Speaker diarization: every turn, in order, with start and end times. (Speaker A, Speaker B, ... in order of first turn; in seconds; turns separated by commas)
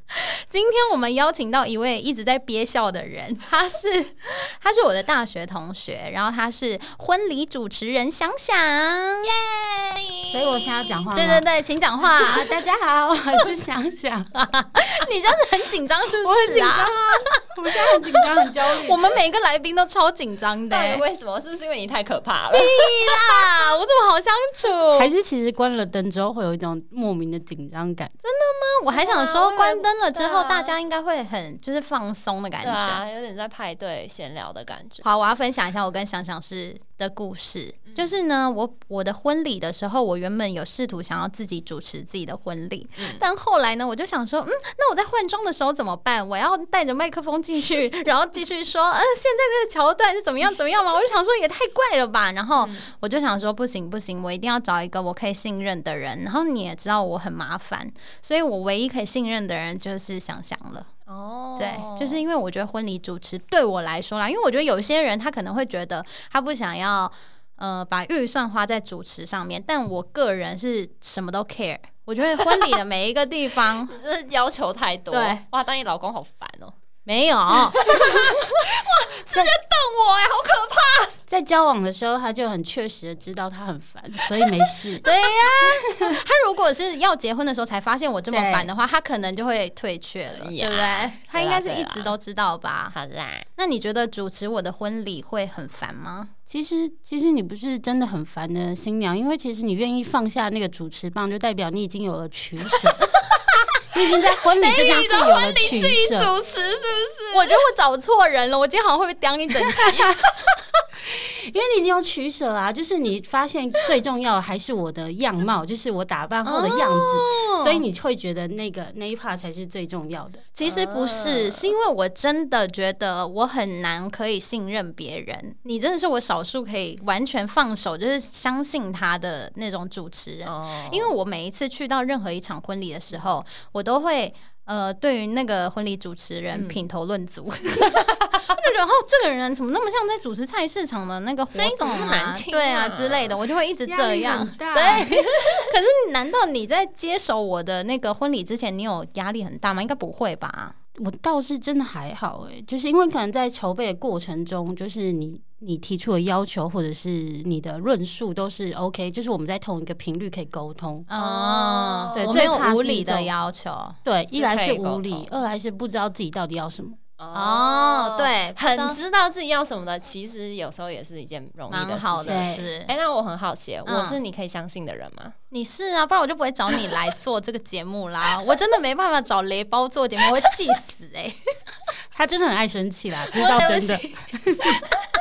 Speaker A: 0.1-9.3, Speaker B: 9.2-11.0, Speaker C: 10.3-11.4, Speaker A: 11.1-12.5, Speaker C: 12.2-14.4, Speaker A: 14.3-21.0, Speaker C: 16.2-19.0, Speaker B: 20.7-23.4, Speaker A: 22.5-25.1, Speaker C: 24.9-28.1, Speaker A: 28.2-33.0, Speaker B: 28.9-30.7, Speaker B: 32.6-35.0, Speaker A: 35.0-60.9, Speaker B: 43.0-43.2, Speaker B: 52.6-52.9, Speaker B: 61.1-62.2, Speaker A: 61.5-73.9, Speaker B: 73.9-76.7, Speaker A: 75.1-75.4, Speaker A: 77.0-78.3, Speaker B: 77.6-81.2, Speaker C: 81.3-85.0, Speaker A: 85.0-92.9, Speaker C: 88.3-88.7, Speaker B: 90.3-92.2, Speaker B: 92.9-93.5, Speaker A: 93.6-96.3, Speaker C: 96.5-103.2, Speaker C: 103.8-106.3, Speaker B: 104.6-107.6, Speaker A: 107.3-110.2, Speaker C: 111.0-120.5, Speaker A: 116.4-117.8, Speaker A: 120.5-150.7, Speaker B: 120.6-121.7, Speaker B: 130.4-131.1, Speaker B: 136.5-136.8, Speaker B: 141.5-143.4, Speaker C: 143.8-145.2, Speaker C: 151.0-161.1, Speaker A: 161.1-164.0, Speaker B: 161.1-162.5, Speaker C: 162.2-163.3, Speaker C: 164.0-167.0, Speaker B: 164.3-165.3, Speaker B: 167.2-175.3, Speaker A: 167.3-169.0, Speaker A: 171.7-172.9, Speaker C: 172.3-172.7, Speaker A: 173.8-174.2, Speaker A: 175.5-181.4, Speaker C: 182.1-184.8, Speaker A: 183.3-184.1